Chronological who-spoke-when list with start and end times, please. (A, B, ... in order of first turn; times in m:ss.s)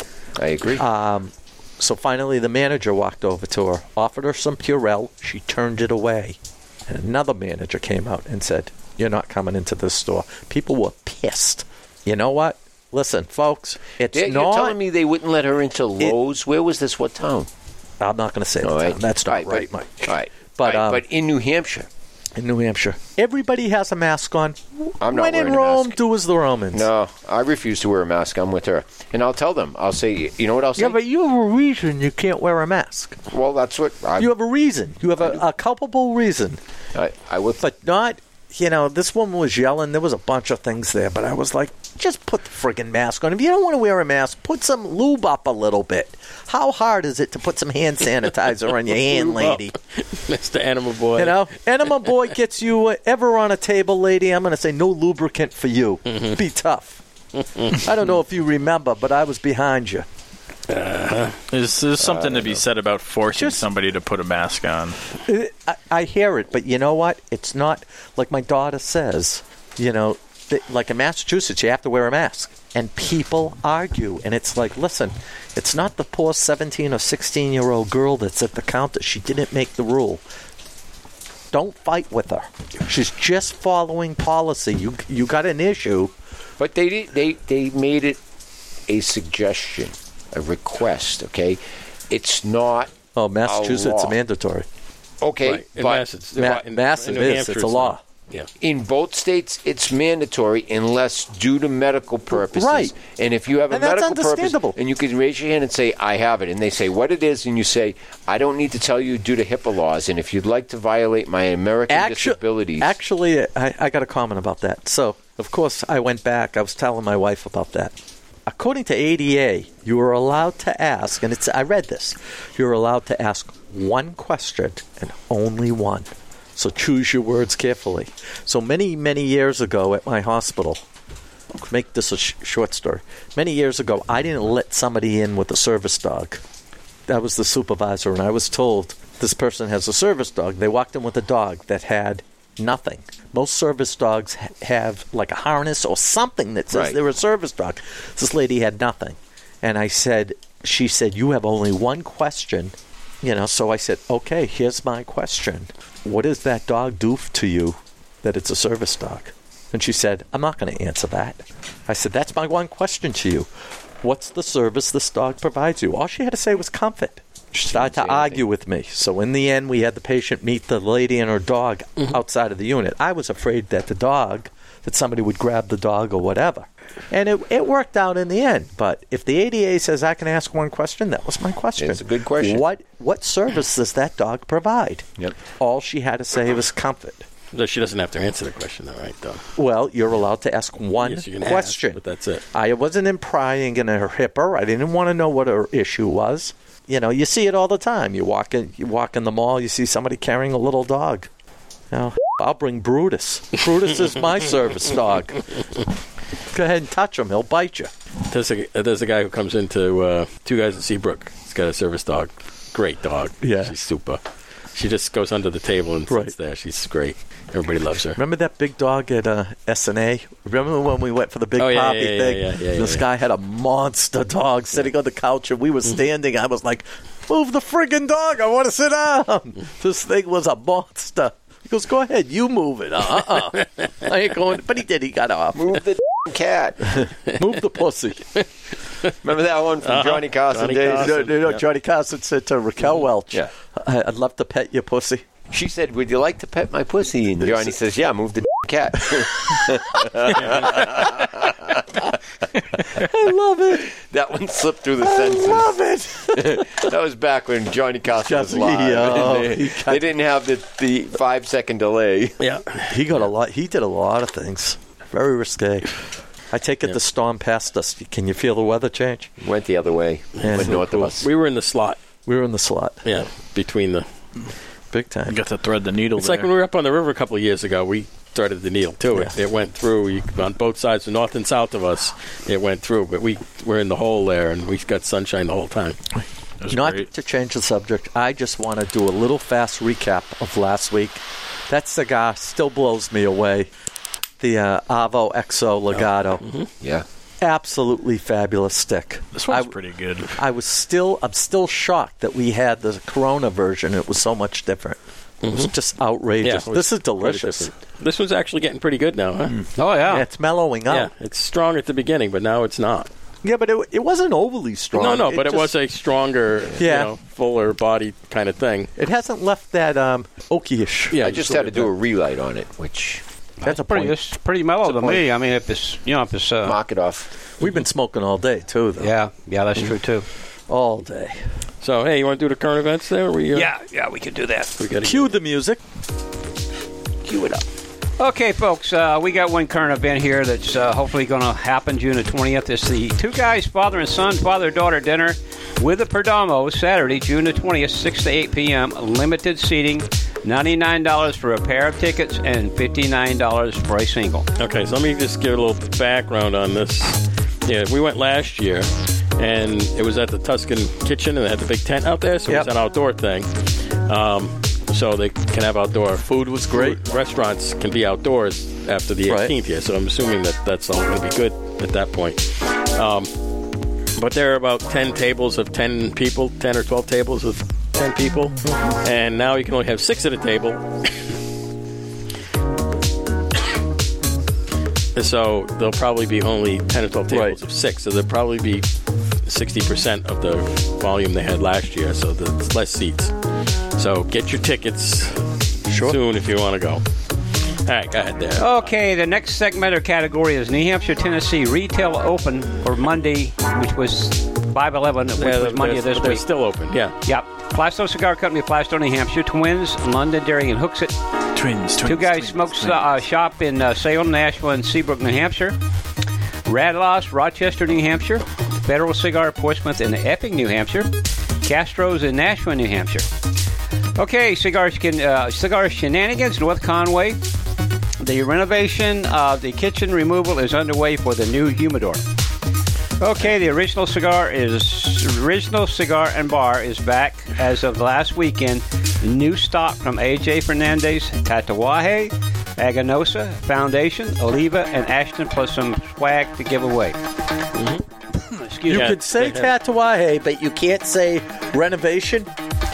0:00.4-0:00.8 A
0:00.8-0:14.8 B
0:14.1-0:17.5 A
0:18.0-0:21.0 B
0:18.6-0:21.9 A
0:22.4-0:26.9 B
0:25.0-0:26.0 A
0:26.7-0:31.0 A
0:30.8-0:33.2 B
0:33.3-0:34.3 A
0:34.2-0:36.6 B
0:37.0-0:37.6 A
0:37.6-0:49.7 B
0:49.0-0:51.4 C
0:51.2-0:57.0 B
0:56.1-0:56.4 C
0:57.4-0:57.8 C
0:57.6-1:00.1 B
1:00.7-1:01.4 C
1:01.5-1:05.0 D
1:02.1-1:02.6 A
1:03.3-1:03.7 B
1:05.3-1:20.2 B
1:21.5-1:26.1 B
1:26.6-1:28.2 A
1:28.9-1:32.9 A
1:33.2-1:34.7 B
1:33.4-1:34.2 A
1:35.2-1:36.1 A
1:35.4-1:38.5 C
1:36.4-1:38.0 B
1:38.6-1:53.0 A
1:42.3-1:42.9 B
1:43.7-1:44.8 B
1:51.9-2:10.8 B
2:11.6-2:16.4 B
2:17.1-2:43.5 B
2:26.7-2:27.0 A
2:44.0-3:05.1 B
2:47.7-2:48.4 A
3:01.8-3:02.6 A
3:05.6-3:07.2 B
3:07.5-3:09.5 C
3:09.6-3:12.0 B
3:11.0-3:12.4 C
3:12.5-3:21.3 B
3:21.9-3:25.4 B
3:26.5-3:27.9 B
3:28.3-3:34.2 C
3:33.4-3:33.8 B
3:34.7-3:38.2 C
3:38.2-3:55.8 B
3:41.6-3:43.0 C
3:55.6-3:57.1 A
3:56.9-3:58.3 B
3:59.2-4:01.2 A
3:59.8-4:01.6 C
4:01.0-4:05.2 B
4:05.5-4:12.2 A
4:12.9-4:13.9 B
4:13.8-4:22.4 A
4:15.0-4:16.9 B
4:18.2-4:20.0 B
4:22.4-4:23.0 C
4:22.9-4:26.0 B
4:26.5-4:29.3 B
4:29.4-4:31.3 A
4:30.4-4:32.0 C
4:30.4-4:30.8 B
4:32.3-4:33.1 B
4:33.0-4:34.1 C
4:34.9-4:35.4 B
4:35.3-4:36.5 D
4:36.2-4:46.0 C
4:46.6-4:47.1 D
4:46.7-4:53.7 B
4:54.4-4:56.4 B
4:55.9-4:56.7 C
4:56.8-4:57.1 A
4:57.4-4:59.7 B
4:59.3-5:00.3 D
5:00.3-5:07.7 B
5:05.4-5:05.7 C
5:06.4-5:09.6 C
5:09.8-5:10.3 E
5:10.1-5:11.1 B
5:10.9-5:13.1 C
5:13.4-5:15.7 B
5:14.9-5:18.9 C
5:16.8-5:17.1 B
5:19.0-5:21.8 B
5:21.1-5:21.9 C
5:21.2-5:23.2 A
5:23.6-5:26.8 E
5:23.6-5:24.2 B
5:24.8-5:25.2 A
5:26.6-5:27.3 A
5:27.6-5:29.1 B
5:29.0-5:30.3 E
5:30.7-5:31.4 B
5:31.8-5:33.7 C
5:33.5-5:34.7 E
5:34.8-5:35.3 C
5:35.0-5:35.8 B
5:38.2-5:54.5 E
5:54.6-6:13.4 C
6:06.2-6:07.0 B
6:09.3-6:09.5 B
6:14.2-6:21.3 C
6:25.2-6:28.9 C
6:27.3-6:27.6 B
6:29.4-6:33.4 C
6:33.9-6:37.0 C
6:35.9-6:36.2 B
6:37.7-6:38.8 C
6:38.6-6:46.5 E
6:45.4-6:47.2 C
6:47.3-6:51.2 E
6:51.6-6:53.1 D
6:52.0-6:55.8 E
6:56.7-7:01.1 E
7:01.6-7:03.3 E
7:04.2-7:07.4 E
7:08.2-7:12.2 E
7:13.2-7:27.2 E
7:27.7-7:28.0 C
7:28.4-7:29.1 E
7:28.9-7:32.5 B
7:28.9-7:29.7 C